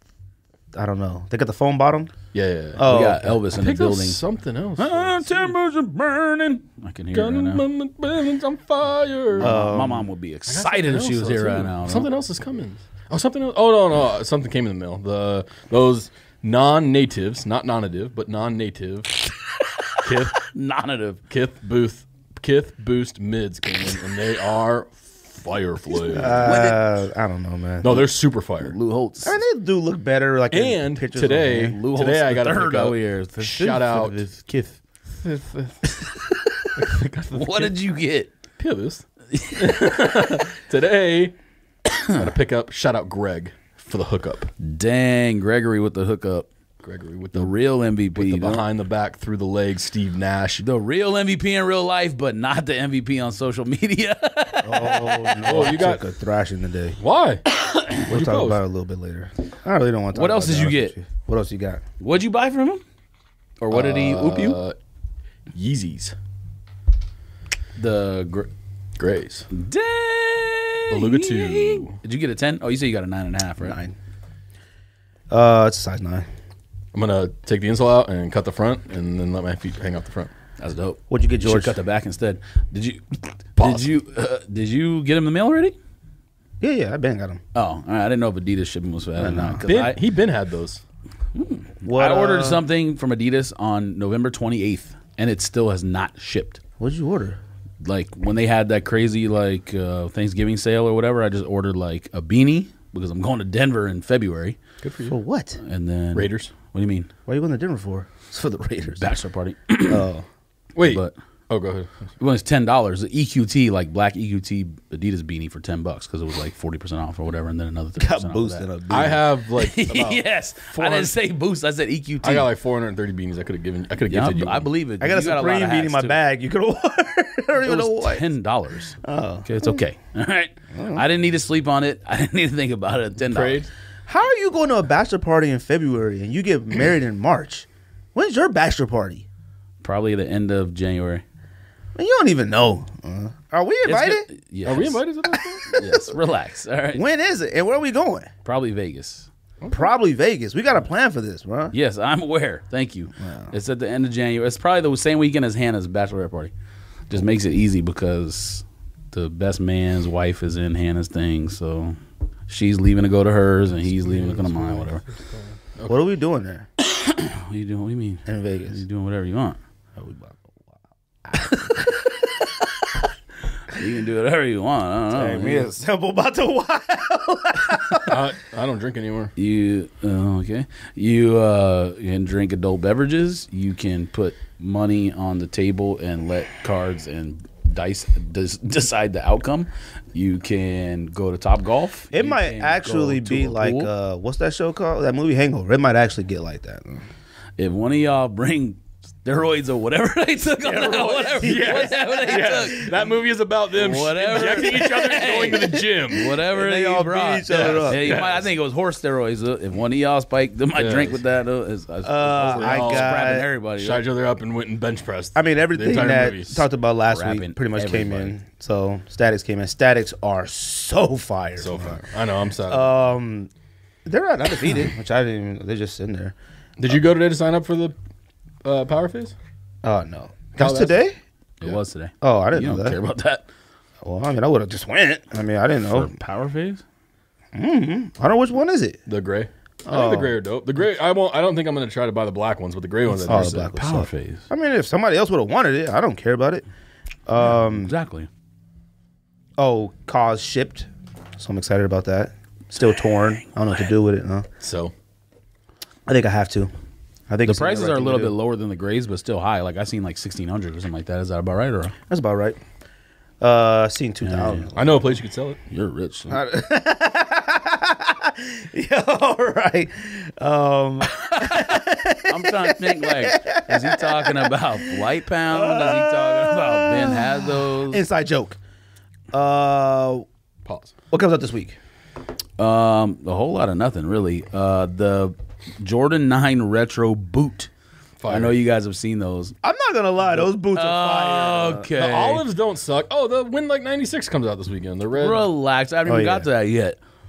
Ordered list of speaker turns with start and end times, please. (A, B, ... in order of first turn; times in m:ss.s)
0:00.7-0:02.1 A
0:02.3-0:02.9 B
0:02.7-0:03.3 A
0:02.8-0:04.2 C
0:03.5-0:05.5 B
0:04.8-0:07.6 C
0:07.1-0:09.5 B
0:09.4-0:12.1 C
0:09.4-0:10.1 A
0:10.5-0:19.2 B
0:19.3-0:21.2 C
0:20.0-0:20.5 B
0:21.3-0:26.5 B
0:26.1-0:28.0 A
0:26.4-0:26.8 C
0:27.8-0:28.7 B
0:28.6-0:29.4 C
0:29.2-0:31.8 A
0:30.5-0:34.2 B
0:31.5-0:34.8 C
0:35.2-0:35.9 B
0:35.9-0:38.3 C
0:36.8-0:37.7 B
0:38.6-0:41.4 B
0:39.3-0:40.4 C
0:41.9-0:42.2 C
0:42.1-0:44.5 B
0:44.6-0:46.5 C
0:46.8-0:47.5 B
0:47.3-0:48.6 C
0:48.1-0:50.6 B
0:50.6-0:55.8 C
0:54.6-0:57.0 A
0:55.4-0:56.0 B
0:57.0-0:57.5 B
0:58.1-0:58.6 B
0:58.1-1:01.8 A
1:00.1-1:00.9 C
1:02.0-1:02.8 C
1:03.6-1:04.6 C
1:03.6-1:04.8 B
1:05.5-1:06.2 B
1:07.8-1:08.5 C
1:09.0-1:09.5 B
1:09.5-1:13.8 C
1:10.9-1:12.0 B
1:13.6-1:13.9 A
1:15.3-1:16.3 A
1:16.9-1:20.3 B
1:20.6-1:25.7 C
1:21.1-1:21.8 A
1:23.6-1:23.9 B
1:26.6-1:27.4 A
1:27.5-1:30.0 C
1:29.2-1:29.9 A
1:29.6-1:30.8 B
1:31.3-1:36.6 C
1:31.9-1:32.6 A
1:36.8-1:37.4 A
1:37.8-1:44.6 C
1:44.8-1:45.2 B
1:45.1-1:45.6 A
1:45.6-1:47.1 C
1:46.1-1:46.5 B
1:47.3-1:49.1 A
1:49.0-1:50.0 C
1:49.9-1:50.2 A
1:50.7-1:52.1 B
1:50.8-1:51.2 C
1:52.2-1:58.6 C
1:58.0-1:59.2 A
1:58.9-2:01.1 B
1:59.6-2:02.5 C
2:02.2-2:04.7 B
2:04.1-2:06.2 C
2:05.0-2:08.2 A
2:07.6-2:13.6 C
2:09.0-2:09.8 A
2:10.7-2:11.0 A
2:13.3-2:13.7 B
2:14.1-2:19.2 A
2:19.8-2:21.2 C
2:21.9-2:24.3 A
2:23.8-2:25.0 C
2:24.6-2:25.7 B
2:25.3-2:26.2 A
2:25.7-2:27.0 C
2:26.9-2:28.3 A
2:28.4-2:29.3 C
2:29.6-2:29.9 B
2:29.7-2:31.7 A
2:31.7-2:36.5 C
2:33.2-2:33.5 A
2:37.1-2:45.0 C
2:43.9-2:46.0 B
2:45.9-2:46.7 A
2:46.8-2:49.6 C
2:48.2-2:48.8 A
2:50.0-2:50.7 A
2:51.2-2:51.9 A
2:51.4-2:53.0 C
2:53.7-2:55.7 C
2:55.1-2:58.2 A
2:58.0-2:59.3 B
2:59.4-3:13.9 C
3:12.1-3:17.0 A
3:17.6-3:22.8 C
3:20.6-3:23.0 A
3:21.4-3:26.3 B
3:23.8-3:34.0 C
3:24.3-3:25.7 A
3:26.3-3:28.2 A
3:27.6-3:28.4 B
3:30.8-3:31.2 B
3:32.0-3:33.4 A
3:32.5-3:33.2 B
3:33.8-3:36.6 B
3:35.4-3:42.0 A
3:37.1-3:38.3 C
3:41.6-3:42.9 B
3:42.7-3:43.5 A
3:44.0-3:46.3 A
3:46.8-3:47.9 B
3:48.6-3:49.4 B
3:49.8-3:51.1 A
3:50.6-3:51.0 B
3:51.6-3:53.4 C
3:52.2-3:53.0 A
3:54.0-3:56.1 A
3:55.9-3:56.8 C
3:57.5-3:59.0 A
3:59.1-4:03.6 B
3:59.8-4:00.3 A
4:03.1-4:04.5 C
4:03.3-4:06.6 A
4:07.3-4:07.9 A
4:07.4-4:08.3 C
4:09.6-4:14.4 A
4:12.8-4:13.4 C
4:14.6-4:14.9 B
4:16.1-4:16.7 A
4:17.3-4:18.3 A
4:17.4-4:21.9 C
4:22.1-4:22.6 A
4:23.4-4:25.0 A
4:24.2-4:24.7 C
4:24.7-4:25.6 B
4:25.7-4:26.4 C
4:26.3-4:38.6 A
4:31.1-4:38.0 C
4:39.3-4:40.2 A
4:40.6-4:40.9 B
4:41.1-4:41.8 A
4:42.6-4:47.7 C
4:48.2-4:48.6 B
4:48.3-4:49.5 C
4:49.6-4:51.9 A
4:50.7-4:52.4 C
4:52.0-4:55.4 B
4:55.2-4:57.0 C
4:56.0-4:56.5 A